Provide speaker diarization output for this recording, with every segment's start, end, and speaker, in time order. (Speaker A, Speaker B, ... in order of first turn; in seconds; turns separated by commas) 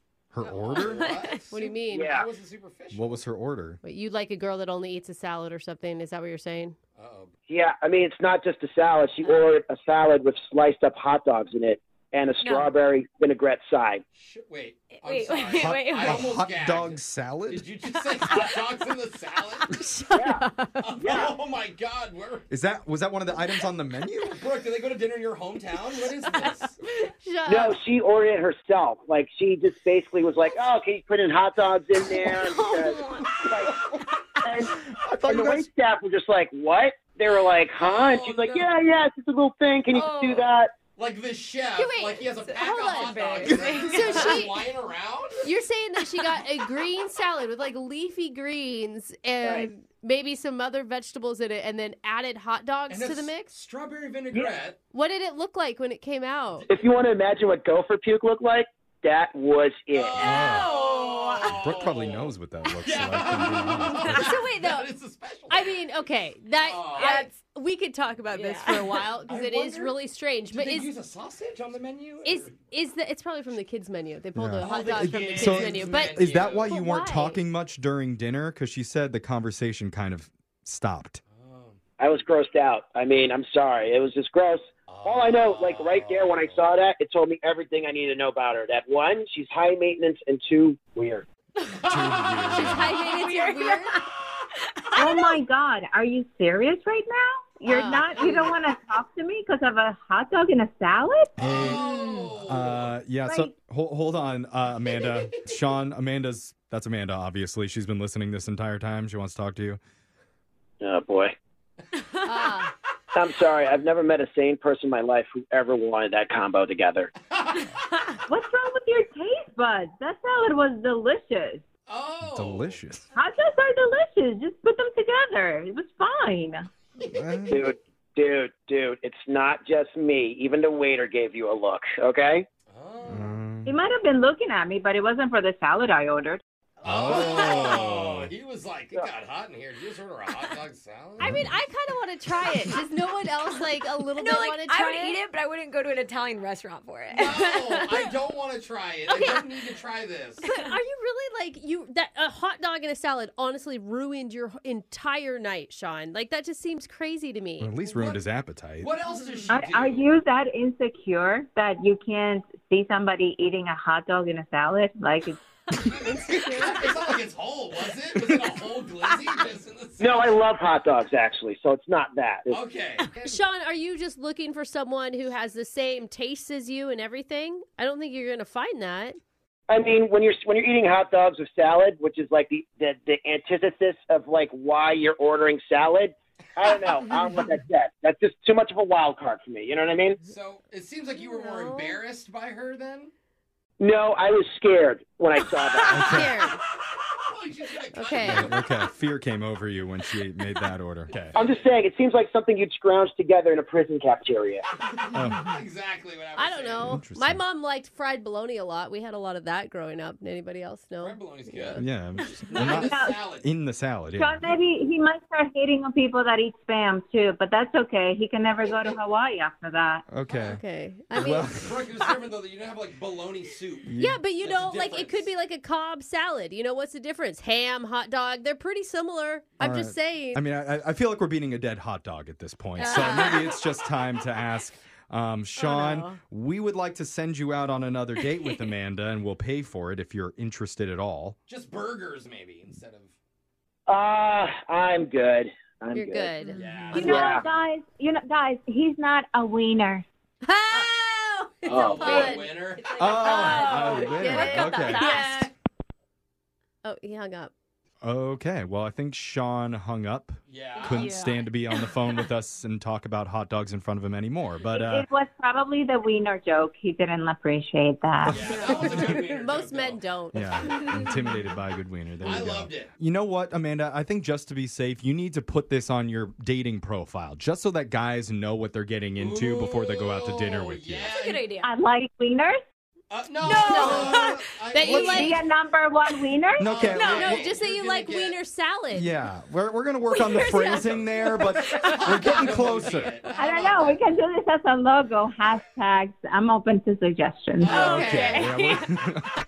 Speaker A: 0.3-1.1, Speaker B: 0.5-3.2, Speaker C: 0.7-1.4, Speaker D: 1.5-2.1, Speaker E: 1.9-2.3, Speaker A: 2.9-3.8, Speaker D: 3.8-6.8, Speaker B: 7.0-7.3, Speaker E: 7.5-14.0, Speaker C: 12.4-12.7, Speaker B: 14.2-19.7, Speaker C: 15.0-16.2, Speaker A: 15.6-17.6, Speaker C: 18.1-18.5, Speaker D: 19.9-20.8, Speaker E: 20.1-20.4, Speaker B: 20.8-22.4, Speaker E: 21.0-21.4, Speaker A: 22.5-24.4, Speaker B: 24.3-26.7, Speaker D: 27.0-27.8, Speaker E: 27.4-33.7, Speaker C: 32.2-33.4, Speaker E: 34.4-40.7, Speaker A: 34.8-35.7, Speaker B: 37.8-38.6, Speaker C: 39.9-40.5, Speaker B: 41.0-45.5, Speaker D: 41.8-44.6, Speaker C: 42.8-44.4, Speaker D: 45.4-53.5, Speaker C: 49.4-49.7, Speaker B: 52.9-54.8, Speaker D: 54.9-56.7, Speaker E: 56.7-60.3, Speaker B: 59.9-65.7, Speaker C: 60.2-61.6, Speaker A: 60.2-60.7, Speaker A: 61.5-64.2, Speaker D: 64.0-64.9, Speaker D: 65.5-70.9, Speaker B: 66.6-67.2, Speaker C: 67.0-67.3, Speaker C: 68.3-69.1, Speaker B: 69.3-69.9, Speaker B: 70.5-72.5, Speaker D: 72.2-77.4, Speaker A: 74.3-81.2, Speaker B: 74.6-76.7, Speaker B: 81.3-81.8, Speaker E: 82.0-91.3, Speaker B: 84.9-86.6, Speaker B: 91.8-92.5, Speaker A: 91.8-92.9, Speaker C: 92.5-95.4, Speaker D: 92.5-94.0, Speaker F: 95.0-101.4, Speaker D: 97.7-98.5, Speaker A: 101.4-101.9, Speaker B: 101.4-102.9, Speaker C: 101.7-102.3, Speaker A: 102.5-109.8, Speaker F: 103.2-103.5, Speaker E: 110.8-111.3, Speaker D: 112.2-112.7, Speaker E: 113.1-117.1, Speaker B: 117.3-117.7, Speaker F: 118.3-121.6, Speaker B: 121.9-122.8, Speaker A: 122.2-123.1, Speaker F: 123.1-126.7, Speaker A: 127.0-127.7, Speaker E: 127.5-132.4, Speaker B: 132.7-133.4, Speaker A: 133.1-133.7, Speaker F: 133.6-136.4, Speaker B: 136.8-141.3, Speaker A: 136.8-138.3, Speaker D: 141.2-145.2, Speaker A: 141.2-141.5, Speaker C: 143.6-148.1, Speaker B: 147.1-150.4, Speaker D: 149.1-149.4, Speaker C: 150.4-150.7, Speaker D: 150.4-157.7, Speaker A: 157.6-158.9, Speaker B: 157.9-158.2, Speaker B: 158.8-160.1, Speaker F: 159.5-165.4, Speaker D: 165.8-166.9, Speaker B: 166.3-170.3, Speaker E: 170.0-172.6, Speaker B: 172.5-173.1, Speaker D: 173.2-179.2, Speaker E: 179.7-190.2, Speaker B: 190.2-193.1, Speaker D: 191.2-192.0, Speaker E: 193.8-196.2, Speaker A: 195.9-196.5, Speaker D: 195.9-196.6, Speaker B: 197.2-198.7, Speaker D: 197.9-198.6, Speaker A: 198.2-201.3, Speaker B: 201.3-201.7, Speaker E: 201.3-204.6, Speaker B: 204.8-206.9, Speaker A: 205.1-205.4, Speaker D: 206.4-211.8, Speaker A: 206.8-207.4, Speaker B: 211.0-211.8, Speaker A: 211.8-214.5, Speaker B: 212.5-213.4, Speaker F: 212.7-213.2, Speaker F: 214.2-220.0, Speaker A: 220.1-220.6, Speaker D: 220.3-221.5, Speaker A: 221.1-221.7, Speaker B: 221.5-225.2, Speaker A: 223.8-224.2, Speaker D: 224.0-230.4, Speaker A: 229.6-241.3, Speaker C: 232.8-233.6, Speaker C: 235.6-236.0, Speaker D: 235.7-236.0, Speaker B: 241.5-243.1, Speaker E: 243.9-246.4, Speaker D: 245.9-247.3, Speaker C: 246.4-246.9, Speaker B: 246.5-247.4, Speaker F: 246.9-250.0, Speaker E: 247.0-247.4, Speaker D: 250.4-252.5, Speaker C: 250.6-251.1, Speaker B: 251.6-253.8, Speaker E: 251.7-252.4, Speaker C: 251.9-255.5, Speaker A: 252.9-255.2, Speaker D: 253.2-255.5, Speaker D: 256.8-257.5, Speaker A: 258.0-265.1, Speaker B: 260.5-261.1, Speaker C: 260.8-262.1, Speaker F: 264.7-268.4, Speaker B: 268.3-270.0, Speaker D: 268.5-271.0, Speaker A: 270.3-281.1, Speaker B: 272.2-272.9, Speaker B: 279.2-281.4, Speaker C: 281.1-281.7, Speaker F: 281.6-282.6, Speaker B: 283.1-285.4, Speaker C: 283.4-285.0, Speaker D: 283.4-285.4, Speaker A: 284.8-285.2, Speaker F: 285.0-286.8, Speaker A: 286.6-287.5, Speaker B: 286.6-288.4, Speaker D: 287.0-289.1, Speaker A: 288.9-293.2, Speaker C: 290.1-292.0, Speaker B: 291.8-294.0, Speaker F: 293.4-297.8, Speaker B: 297.6-298.5, Speaker C: 297.7-298.9, Speaker D: 297.7-298.4, Speaker A: 297.8-299.3